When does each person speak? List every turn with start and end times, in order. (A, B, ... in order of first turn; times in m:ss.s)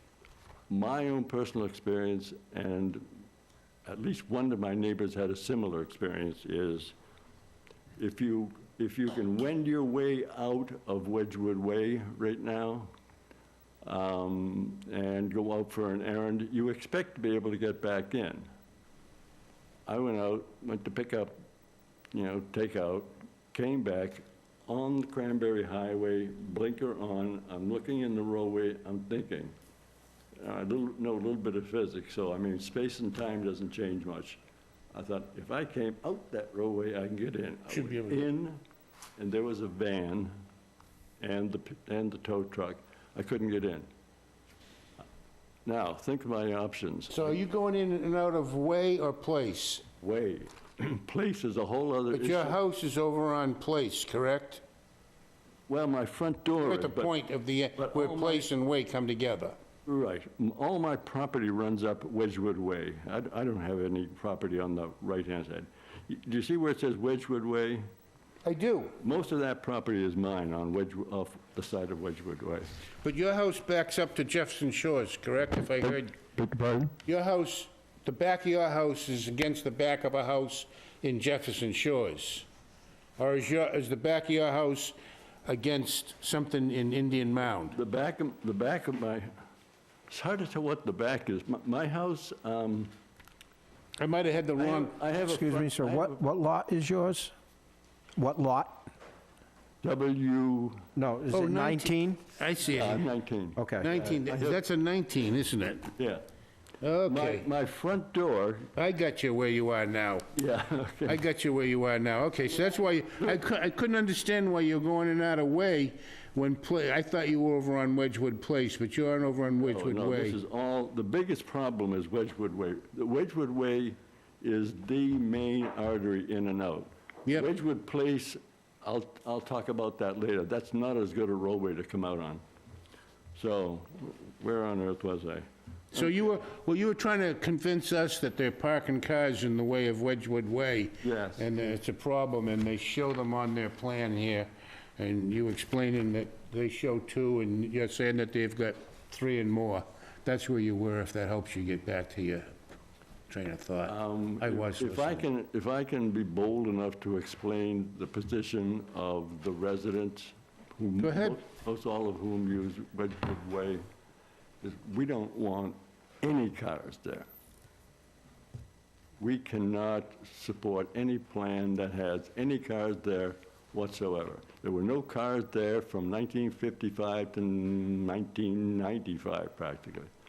0:00.7-0:03.1 A
0:03.8-0:06.9 A
0:08.0-0:12.9 A
0:13.8-0:18.5 A
0:19.9-0:21.3 A
0:22.1-0:29.5 A
0:30.4-0:34.4 A
0:34.9-0:38.6 A
0:37.7-0:38.2 B
0:39.2-0:40.3 A
0:41.2-0:43.9 A
0:45.6-0:47.3 A
0:47.1-0:49.8 B
0:50.0-0:52.6 A
0:52.1-0:54.6 B
0:55.7-0:57.1 A
0:56.6-0:59.6 B
0:57.8-0:58.5 A
0:59.8-1:07.9 A
1:08.4-1:09.0 B
1:09.0-1:12.7 A
1:13.0-1:16.2 B
1:16.4-1:16.9 A
1:17.0-1:22.4 B
1:23.2-1:27.8 B
1:27.7-1:29.3 A
1:30.1-1:32.9 A
1:34.0-1:34.9 B
1:34.6-1:36.2 A
1:35.2-1:37.3 C
1:38.2-1:38.9 C
1:39.8-1:40.9 A
1:40.9-1:42.2 C
1:41.3-1:43.0 B
1:42.6-1:44.6 A
1:43.6-1:43.9 C
1:43.8-1:45.9 B
1:46.0-1:46.2 A
1:46.8-1:47.5 B
1:47.0-1:48.7 A
1:48.7-1:50.3 B
1:50.3-1:51.2 A
1:51.0-2:00.4 B
1:59.6-2:12.4 A
2:13.3-2:16.1 A
2:15.9-2:32.5 B
2:21.0-2:21.5 A
2:33.3-2:35.2 B
2:33.8-2:43.8 A
2:41.0-2:41.4 B
2:44.6-2:47.2 A
2:49.2-3:00.1 A